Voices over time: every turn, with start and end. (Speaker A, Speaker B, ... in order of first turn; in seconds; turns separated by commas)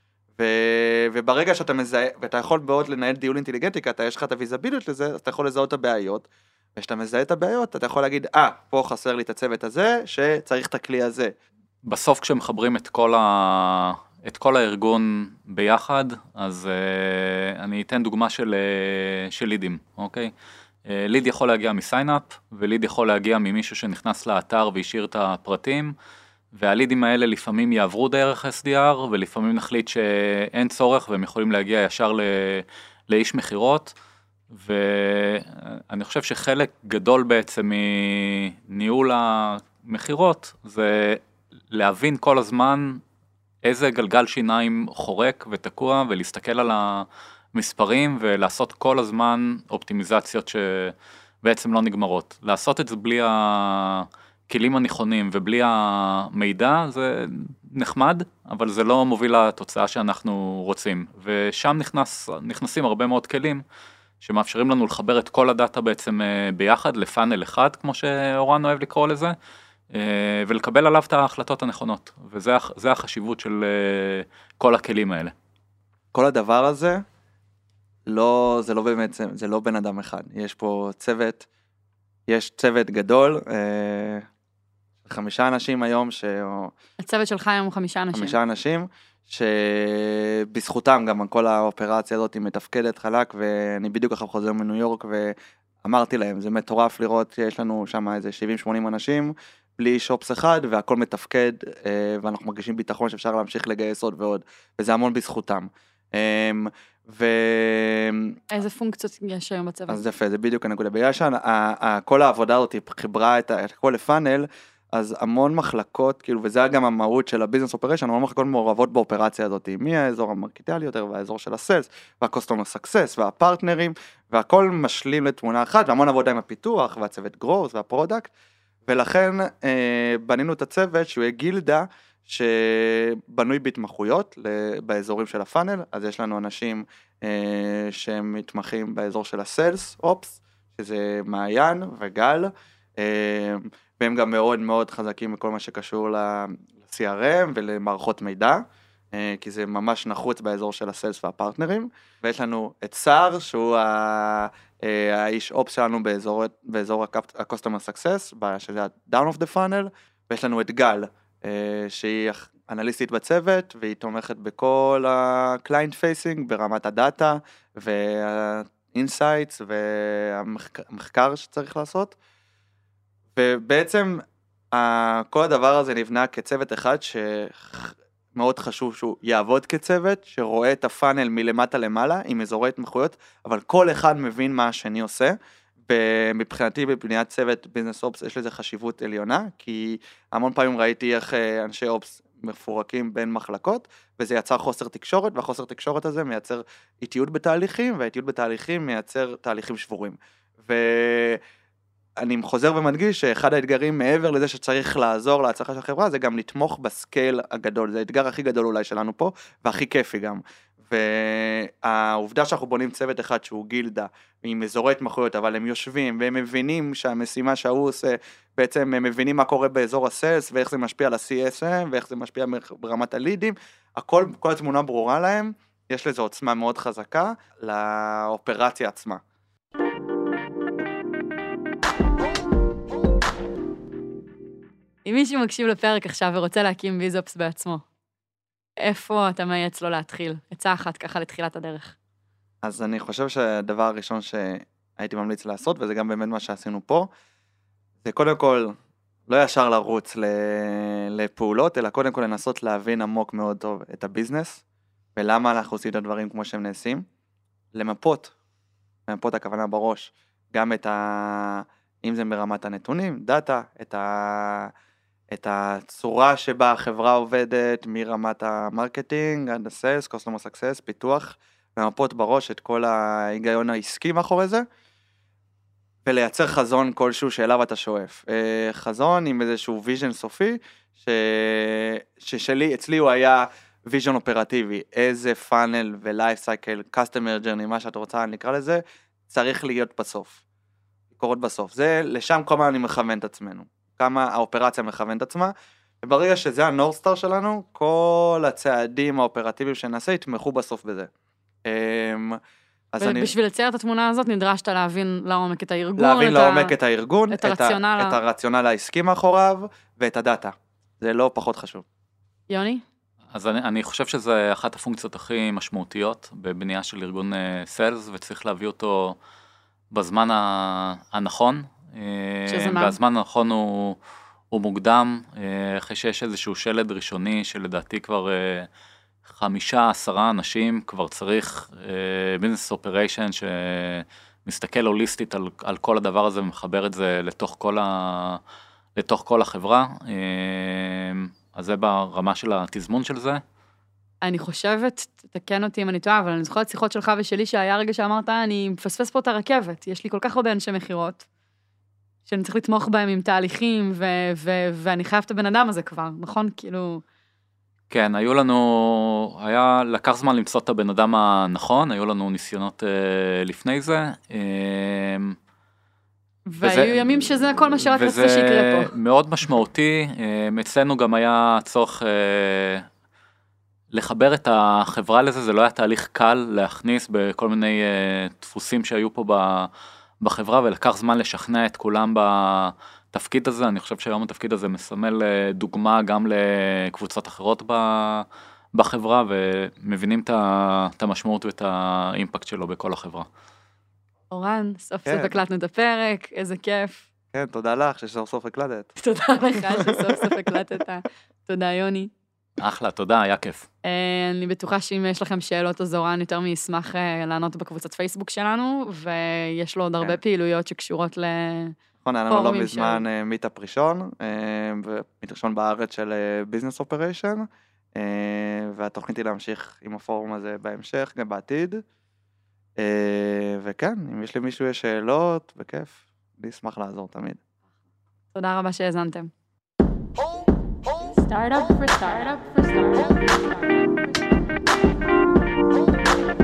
Speaker A: 0.4-11.3, Speaker B: 11.8-20.3, Speaker B: 20.9-25.9, Speaker B: 26.5-33.9, Speaker B: 34.5-43.0, Speaker B: 43.6-63.6, Speaker B: 64.2-69.3, Speaker B: 69.9-75.3, Speaker A: 76.1-77.0, Speaker A: 78.1-81.5, Speaker A: 82.3-84.2, Speaker A: 85.0-86.7, Speaker C: 87.0-88.4, Speaker A: 88.1-108.3, Speaker C: 108.5-110.0, Speaker A: 109.9-128.3, Speaker A: 128.9-172.2, Speaker A: 173.3-185.3, Speaker A: 185.9-201.4, Speaker A: 202.2-229.2, Speaker C: 235.0-237.8, Speaker C: 238.8-241.9, Speaker A: 242.6-247.1, Speaker A: 248.0-248.7, Speaker A: 249.3-254.6, Speaker A: 255.2-257.1, Speaker A: 257.7-258.3, Speaker A: 259.1-264.7, Speaker A: 265.3-274.6, Speaker A: 276.0-290.4, Speaker A: 291.2-301.1, Speaker A: 301.6-302.4, Speaker A: 302.9-303.3, Speaker C: 303.0-306.7, Speaker A: 306.0-311.8, Speaker C: 307.3-308.2, Speaker C: 312.5-312.8, Speaker B: 313.3-319.2, Speaker B: 319.9-324.0, Speaker C: 322.5-322.9, Speaker B: 324.5-328.7, Speaker B: 329.2-338.4, Speaker B: 338.9-343.4, Speaker C: 344.2-351.2, Speaker C: 352.3-357.0, Speaker B: 357.9-365.4, Speaker C: 366.5-368.9, Speaker B: 366.6-372.9, Speaker B: 373.9-393.3, Speaker C: 394.3-397.1, Speaker A: 395.1-395.4, Speaker A: 397.3-398.9, Speaker C: 399.0-402.1, Speaker A: 399.5-400.3, Speaker B: 402.6-403.7, Speaker C: 403.8-411.7, Speaker A: 412.0-421.8, Speaker C: 412.3-413.0, Speaker A: 422.8-427.4, Speaker C: 428.3-429.3, Speaker C: 431.6-432.9